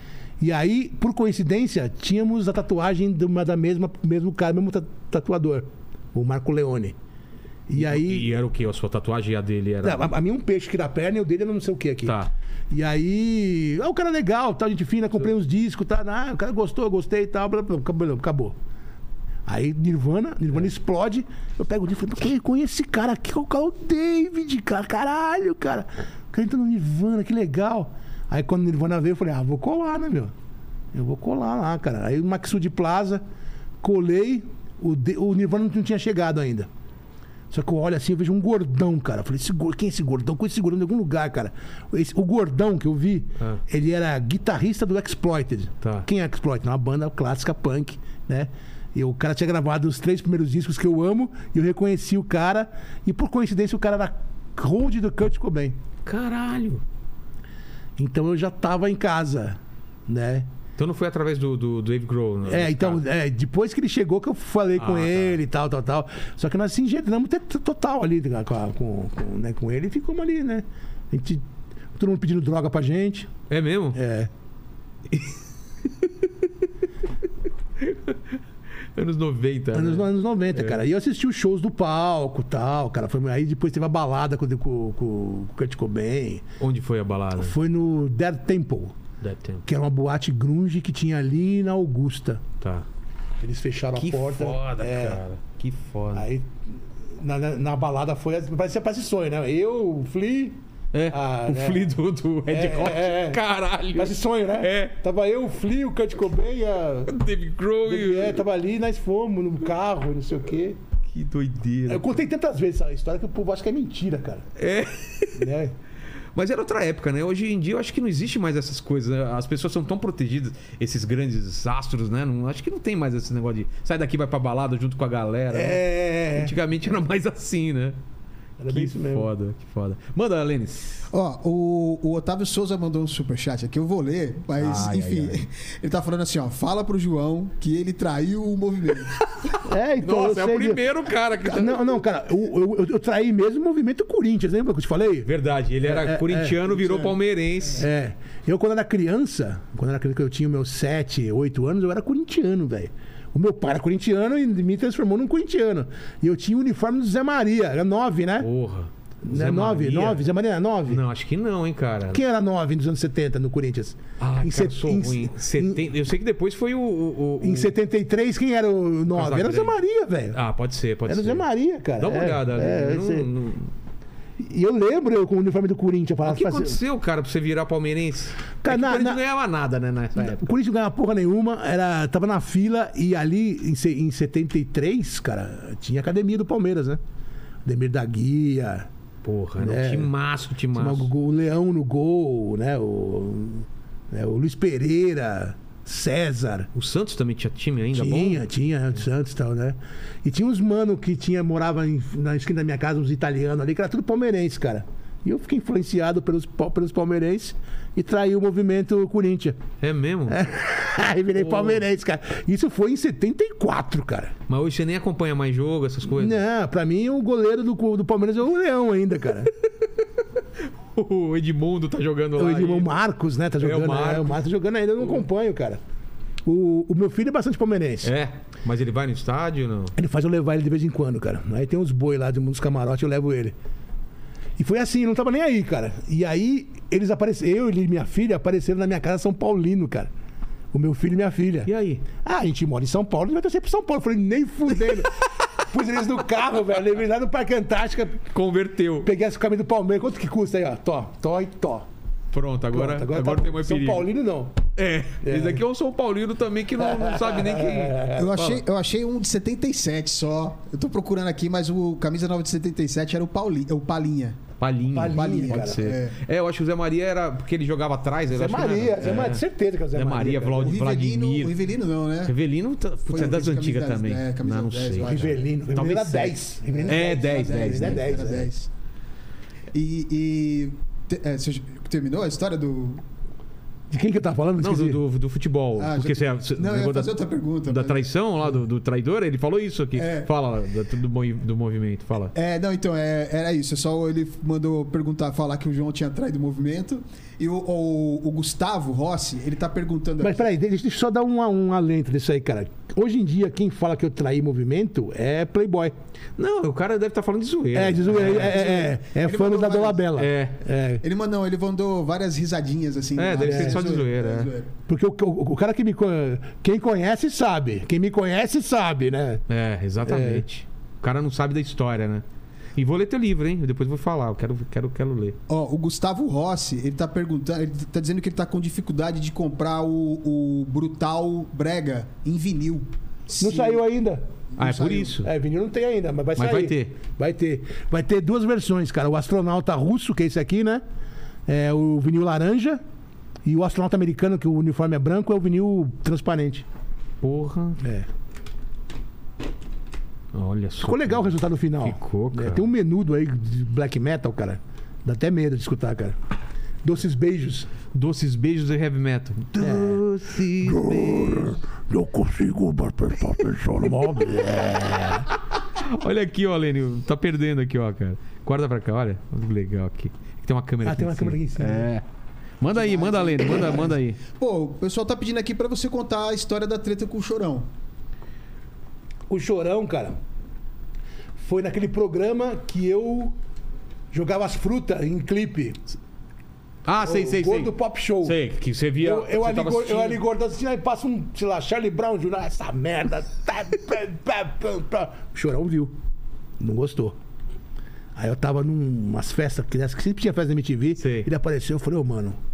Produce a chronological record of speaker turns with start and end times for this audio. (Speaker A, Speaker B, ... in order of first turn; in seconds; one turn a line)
Speaker A: 0.4-7.0
Speaker A: 7.7-8.3
Speaker B: 7.8-10.1
Speaker A: 9.8-12.2
Speaker B: 12.1-12.3
Speaker A: 12.7-18.6
Speaker A: 19.4-30.3
Speaker A: 30.9-33.2
Speaker A: 33.8-36.7
Speaker A: 37.5-55.8
Speaker B: 45.8-46.1
Speaker B: 56.0-56.8
Speaker A: 58.0-60.5
Speaker B: 60.8-63.0
Speaker A: 62.5-71.4
Speaker B: 64.8-65.4
Speaker A: 72.0-73.3
Speaker B: 73.5-74.0
Speaker A: 73.9-74.3
Speaker B: 77.8-78.2
Speaker B: 78.9-80.8
Speaker A: 79.7-86.4
Speaker B: 86.6-87.5
Speaker A: 87.3-89.0
Speaker B: 89.2-89.7
Speaker A: 89.7-92.4
Speaker B: 92.6-92.9
Speaker A: 93.4-95.2
Speaker B: 93.9-96.3
Speaker A: 96.1-96.6
Speaker A: 97.2-100.6
Speaker B: 100.9-105.0
Speaker A: 101.1-102.0
Speaker A: 102.5-103.4
Speaker A: 103.9-107.1
Speaker B: 107.1-108.4
Speaker A: 107.8-110.8
Speaker B: 111.0-112.2
Speaker A: 111.9-114.4
Speaker B: 114.6-115.4
Speaker A: 115.3-115.7
Speaker B: 116.3-128.0
Speaker A: 125.5-126.5
Speaker A: 128.6-129.3
Speaker B: 128.7-131.1
Speaker C: 131.1-139.2
Speaker B: 134.6-135.4
Speaker B: 139.2-142.0
Speaker A: 139.7-140.8
Speaker A: 141.4-145.3
Speaker B: 145.2-147.8
Speaker A: 145.8-146.7
Speaker A: 147.7-158.5
Speaker B: 158.4-160.3
Speaker A: 159.2-161.0
Speaker B: 160.9-162.2
Speaker A: 162.1-165.8
Speaker B: 164.2-167.7
Speaker A: 167.4-170.4
Speaker B: 169.1-169.8
Speaker B: 170.3-171.4
Speaker A: 171.1-173.3
Speaker B: 172.0-173.7
Speaker A: 174.4-176.8
Speaker B: 176.2-180.6
Speaker A: 178.6-179.2
Speaker A: 180.2-187.0
Speaker A: 187.6-188.9
Speaker B: 189.2-191.1
Speaker A: 189.6-190.1
Speaker A: 190.7-196.7
Speaker B: 196.7-198.4
Speaker A: 197.9-209.6
Speaker B: 209.8-210.4
Speaker A: 210.3-214.3
Speaker B: 211.3-211.8
Speaker B: 214.5-216.4
Speaker A: 216.1-219.5
Speaker B: 220.9-222.9
Speaker A: 222.4-225.8
Speaker B: 223.6-224.4
Speaker A: 226.4-228.1
Speaker B: 228.0-229.9
Speaker A: 229.9-233.6
Speaker A: 234.6-240.1
Speaker A: 240.7-248.3
Speaker B: 241.6-242.1
Speaker B: 248.3-249.1
Speaker A: 249.0-251.9
Speaker B: 252.3-254.1
Speaker A: 252.7-254.6
Speaker B: 254.8-258.6
Speaker A: 255.2-255.6
Speaker A: 256.8-258.4
Speaker C: 258.1-264.4
Speaker B: 264.6-271.6
Speaker A: 264.9-265.9
Speaker C: 265.1-266.2
Speaker A: 268.3-270.9
Speaker C: 270.6-272.4
Speaker B: 272.2-276.4
Speaker C: 273.1-275.9
Speaker A: 275.0-278.5
Speaker C: 276.7-278.7
Speaker B: 276.9-278.4
Speaker C: 279.7-283.0
Speaker A: 283.9-285.0
Speaker B: 284.6-292.3
Speaker C: 285.8-288.1
Speaker C: 289.9-290.3
Speaker C: 292.3-300.5
Speaker A: 300.2-305.9
Speaker B: 306.4-308.6
Speaker A: 307.7-311.0
Speaker C: 308.2-310.1
Speaker B: 310.2-310.6
Speaker C: 311.0-314.7
Speaker B: 313.1-314.5
Speaker A: 313.4-314.0
Speaker A: 314.9-319.4
Speaker B: 319.5-322.2
Speaker A: 320.0-320.4
Speaker B: 322.8-325.4
Speaker C: 325.5-333.8
Speaker A: 333.4-334.2
Speaker C: 334.6-335.1
Speaker B: 334.6-335.3
Speaker A: 335.2-340.8
Speaker B: 336.4-336.9
Speaker A: 341.5-342.8
Speaker A: 343.4-346.6
Speaker B: 347.2-347.8
Speaker A: 347.8-348.1
Speaker B: 350.3-352.7
Speaker A: 350.8-356.2
Speaker A: 356.8-357.7
Speaker B: 357.9-361.6
Speaker A: 359.6-365.3
Speaker B: 364.7-365.2
Speaker B: 365.7-372.0
Speaker A: 370.8-371.9
Speaker B: 372.6-374.2
Speaker C: 372.7-377.7
Speaker A: 379.3-380.2
Speaker A: 381.4-383.4
Speaker A: 384.1-385.8
Speaker B: 386.9-390.2
Speaker A: 387.0-388.4
Speaker A: 389.0-395.9
Speaker A: 396.6-397.1
Speaker A: 398.1-402.4
Speaker B: 401.0-401.3